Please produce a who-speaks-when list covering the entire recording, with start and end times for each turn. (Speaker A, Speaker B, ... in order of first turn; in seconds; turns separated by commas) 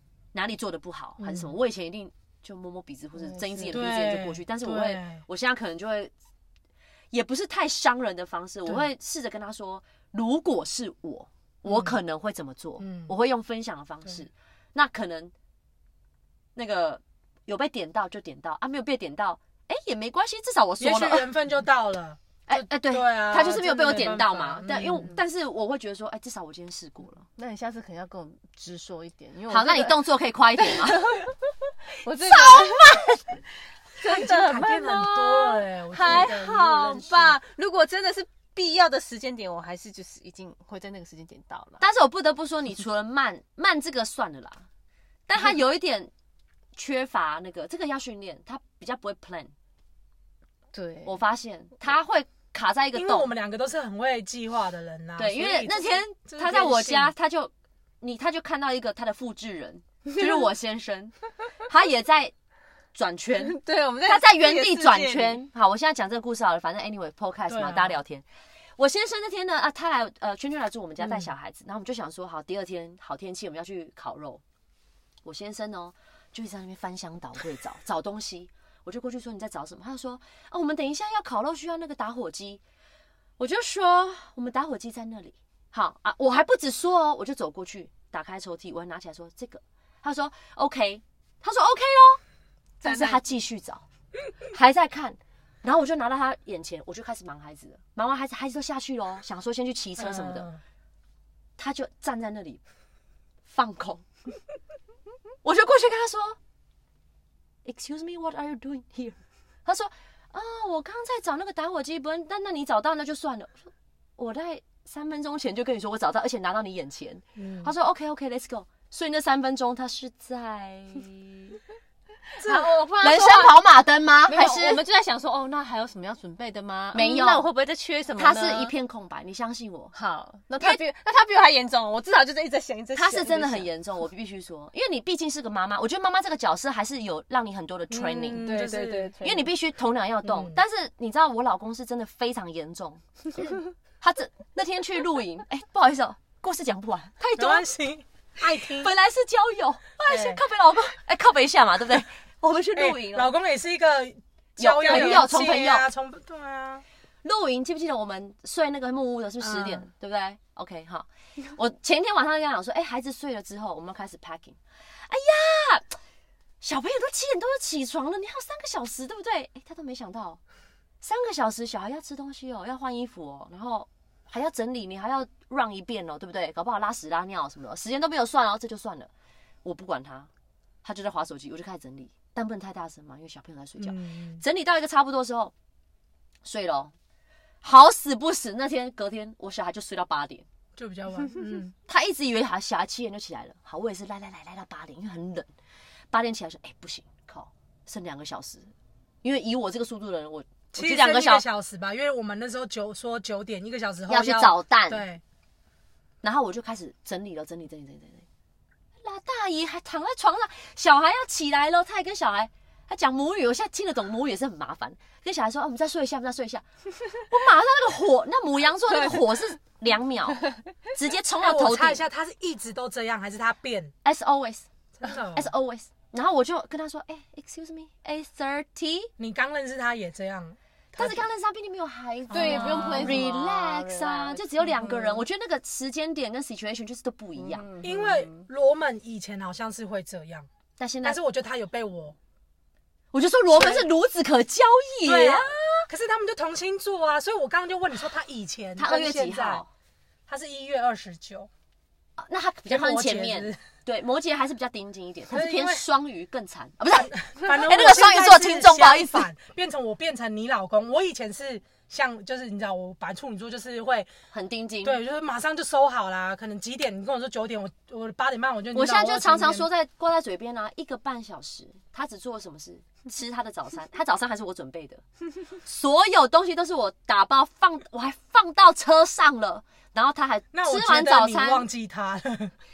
Speaker A: 0.3-6.1, Speaker B: 1.2-1.5, Speaker C: 3.2-3.9, Speaker B: 3.7-5.2, Speaker A: 7.1-15.3, Speaker B: 11.7-12.0, Speaker B: 12.8-13.1, Speaker A: 16.6-21.3, Speaker B: 20.8-25.1, Speaker A: 22.5-27.3, Speaker C: 27.4-30.0, Speaker A: 29.5-31.0, Speaker C: 30.6-31.3, Speaker C: 32.0-33.0, Speaker A: 32.2-33.2, Speaker C: 34.0-41.8, Speaker B: 34.0-37.4, Speaker A: 36.0-36.4, Speaker A: 41.8-44.7, Speaker A: 45.3-46.1, Speaker A: 46.8-49.5, Speaker C: 50.7-51.1, Speaker A: 51.0-53.3, Speaker B: 52.9-57.1, Speaker A: 55.2-62.3, Speaker A: 62.9-68.3, Speaker C: 63.4-65.4, Speaker B: 67.5-68.0, Speaker A: 68.8-74.4, Speaker A: 75.2-82.6, Speaker A: 83.4-92.2, Speaker A: 92.8-93.8, Speaker C: 92.8-93.2, Speaker A: 94.5-100.5, Speaker B: 100.0-100.6, Speaker A: 101.6-102.6, Speaker A: 103.5-104.0, Speaker A: 105.4-106.4, Speaker A: 107.7-121.6, Speaker B: 117.4-117.7, Speaker C: 122.4-123.6, Speaker B: 122.4-122.9, Speaker A: 123.0-124.8, Speaker C: 124.3-128.7, Speaker A: 126.9-127.5, Speaker A: 128.2-129.9, Speaker C: 129.9-133.7, Speaker A: 132.9-138.5, Speaker B: 137.9-139.2, Speaker C: 138.4-139.5, Speaker A: 139.2-143.0, Speaker B: 140.2-140.6, Speaker A: 144.0-147.7, Speaker B: 147.3-148.9, Speaker A: 148.6-153.3, Speaker B: 150.1-150.4, Speaker B: 152.8-156.8, Speaker A: 154.6-155.9, Speaker A: 157.2-165.9, Speaker B: 159.4-159.8, Speaker A: 166.6-170.4, Speaker A: 171.0-179.1, Speaker A: 179.6-180.3, Speaker A: 180.8-185.5, Speaker B: 183.8-184.4, Speaker A: 186.4-186.9, Speaker A: 187.6-190.5, Speaker B: 190.8-191.8, Speaker A: 191.9-195.5, Speaker A: 196.1-198.7, Speaker A: 199.2-201.5, Speaker B: 200.7-205.2, Speaker A: 204.1-205.1, Speaker A: 206.2-208.3, Speaker A: 209.0-216.7, Speaker A: 217.2-222.0, Speaker C: 218.9-219.3, Speaker B: 221.3-223.9, Speaker A: 224.0-224.7, Speaker B: 225.0-225.5, Speaker A: 225.3-229.1, Speaker B: 229.2-231.3, Speaker A: 230.9-237.7, Speaker B: 232.3-233.2, Speaker C: 232.3-235.2, Speaker C: 237.4-238.5, Speaker B: 237.8-240.5, Speaker A: 240.8-241.2, Speaker B: 241.0-242.2, Speaker A: 243.1-245.9, Speaker B: 243.5-243.9, Speaker B: 245.0-249.6, Speaker A: 248.8-249.7, Speaker B: 250.3-251.5, Speaker A: 252.2-259.3, Speaker B: 252.7-253.6, Speaker B: 255.3-255.9, Speaker B: 256.9-264.1, Speaker A: 264.3-265.0, Speaker B: 264.8-269.7, Speaker A: 268.7-281.7, Speaker B: 280.5-282.5